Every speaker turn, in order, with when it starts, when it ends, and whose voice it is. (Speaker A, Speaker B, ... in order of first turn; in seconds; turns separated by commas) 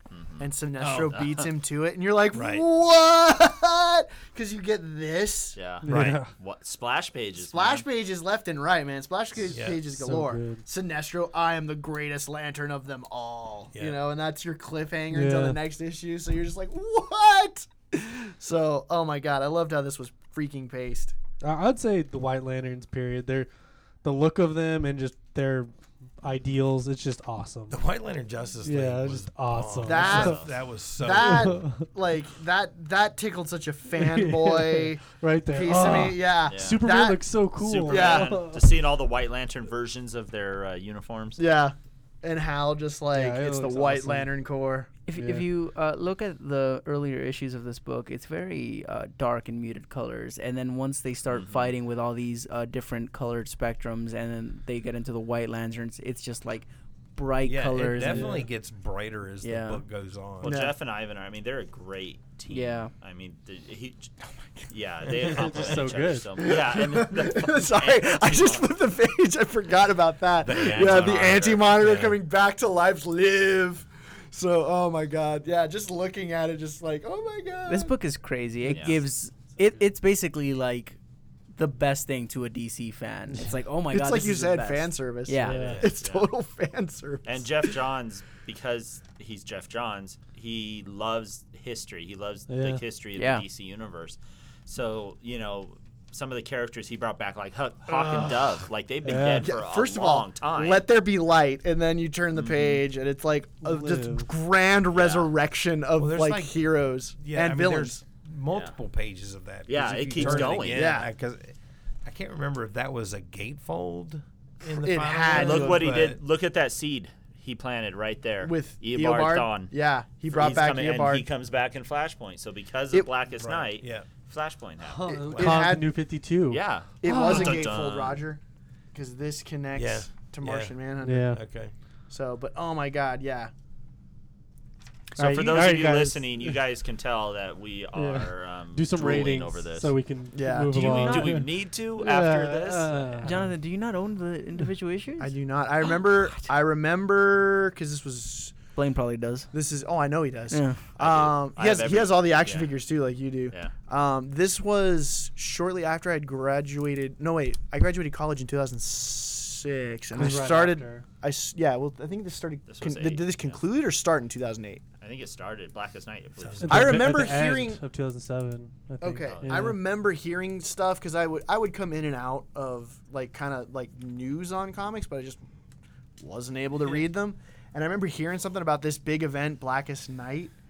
Speaker A: 0.1-0.5, Speaker B: 0.4-5.6, Speaker C: 0.8-1.3, Speaker A: 1.1-1.5, Speaker C: 2.3-2.7, Speaker A: 5.5-7.9, Speaker D: 5.8-6.3, Speaker C: 5.9-6.2, Speaker B: 7.4-21.1, Speaker C: 9.5-9.8, Speaker D: 9.8-10.7, Speaker C: 13.7-14.0, Speaker D: 15.1-15.6, Speaker D: 21.4-23.5, Speaker D: 24.0-27.8, Speaker C: 27.7-31.6, Speaker D: 28.6-30.4, Speaker B: 29.9-30.4, Speaker A: 30.0-30.5, Speaker B: 31.0-37.3, Speaker D: 31.2-31.9, Speaker D: 33.9-38.6, Speaker A: 36.5-36.9, Speaker A: 37.6-41.4, Speaker B: 37.9-38.3, Speaker B: 41.4-44.9, Speaker D: 43.1-44.3, Speaker E: 45.1-58.5, Speaker D: 45.2-45.5, Speaker A: 51.3-51.7, Speaker C: 57.4-60.6, Speaker D: 58.0-58.5, Speaker E: 59.4-59.8, Speaker A: 60.4-64.1, Speaker B: 60.4-60.8, Speaker E: 62.5-62.9, Speaker A: 64.7-68.7, Speaker D: 65.1-66.6, Speaker B: 66.4-78.0, Speaker C: 70.4-72.2, Speaker A: 70.5-71.8, Speaker E: 77.7-81.0, Speaker A: 78.7-79.0, Speaker E: 81.5-85.8, Speaker B: 83.9-87.8, Speaker D: 85.5-85.8, Speaker C: 85.5-85.9, Speaker A: 85.6-86.3, Speaker A: 87.2-100.9, Speaker D: 92.5-92.8, Speaker E: 93.2-93.5, Speaker C: 97.9-98.7, Speaker D: 99.0-99.5, Speaker B: 99.4-108.0, Speaker A: 102.3-102.8, Speaker D: 103.6-104.3, Speaker A: 104.9-105.3, Speaker C: 106.0-106.6, Speaker C: 107.2-116.2, Speaker A: 108.5-108.8, Speaker A: 109.7-111.0, Speaker B: 110.2-111.1, Speaker B: 114.7-116.1, Speaker A: 115.3-119.7, Speaker B: 118.4-121.3, Speaker A: 120.3-125.1, Speaker C: 123.4-124.1, Speaker D: 124.8-126.7, Speaker B: 125.1-126.0, Speaker C: 125.3-125.7, Speaker A: 126.5-128.2, Speaker B: 127.0-128.4, Speaker E: 127.0-127.7, Speaker B: 128.9-131.4, Speaker C: 129.7-130.7, Speaker D: 131.0-131.4, Speaker C: 131.3-131.7, Speaker B: 132.1-133.5, Speaker A: 135.2-140.0, Speaker D: 135.2-136.6, Speaker D: 137.9-143.5, Speaker B: 140.3-141.3, Speaker A: 140.7-143.3, Speaker E: 143.2-145.3, Speaker B: 145.2-148.6, Speaker E: 148.8-149.5, Speaker B: 149.5-164.8, Speaker E: 150.5-150.8, Speaker A: 151.0-152.8, Speaker D: 160.1-161.1, Speaker A: 162.7-163.6, Speaker A: 165.0-167.0, Speaker C: 166.4-167.3, Speaker D: 166.6-169.8, Speaker B: 166.7-167.8, Speaker B: 169.0-175.4, Speaker A: 169.2-169.6, Speaker B: 176.2-180.5